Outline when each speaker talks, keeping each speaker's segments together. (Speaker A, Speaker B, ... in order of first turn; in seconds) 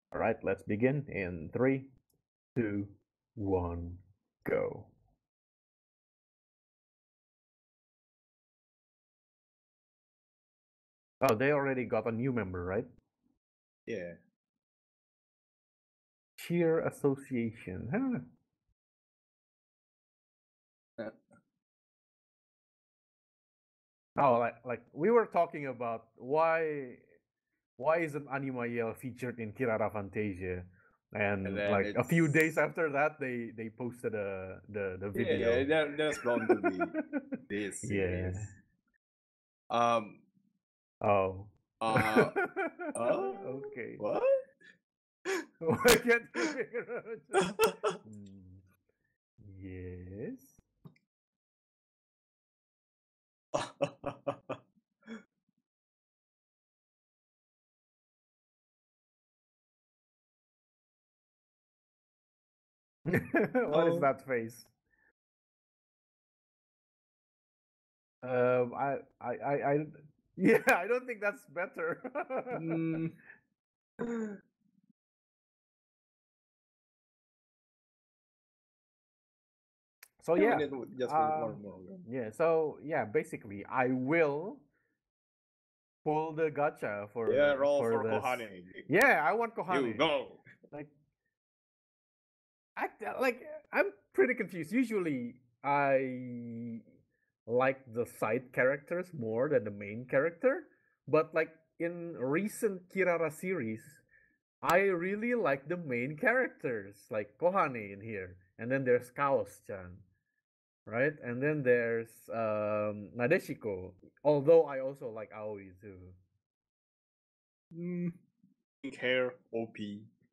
Speaker A: 0.1-1.9, 2.5-4.9, 11.2-12.9, 16.4-18.2, 24.2-27.0, 27.8-38.5, 41.0-44.0, 45.6-48.6, 49.4-50.6, 63.1-64.7, 68.2-72.8, 80.2-84.6, 86.0-90.1, 92.8-96.8, 97.5-104.0, 104.6-110.0, 110.8-116.2
Speaker B: 13.9-14.2, 31.4-32.6, 35.1-37.0, 37.5-38.5, 39.7-40.2, 41.8-42.3, 42.9-44.4, 47.6-47.9, 53.5-54.6, 63.7-64.1, 72.5-73.2, 74.0-74.4, 80.3-82.0, 87.3-88.9, 89.7-90.4, 117.7-118.2, 118.8-120.1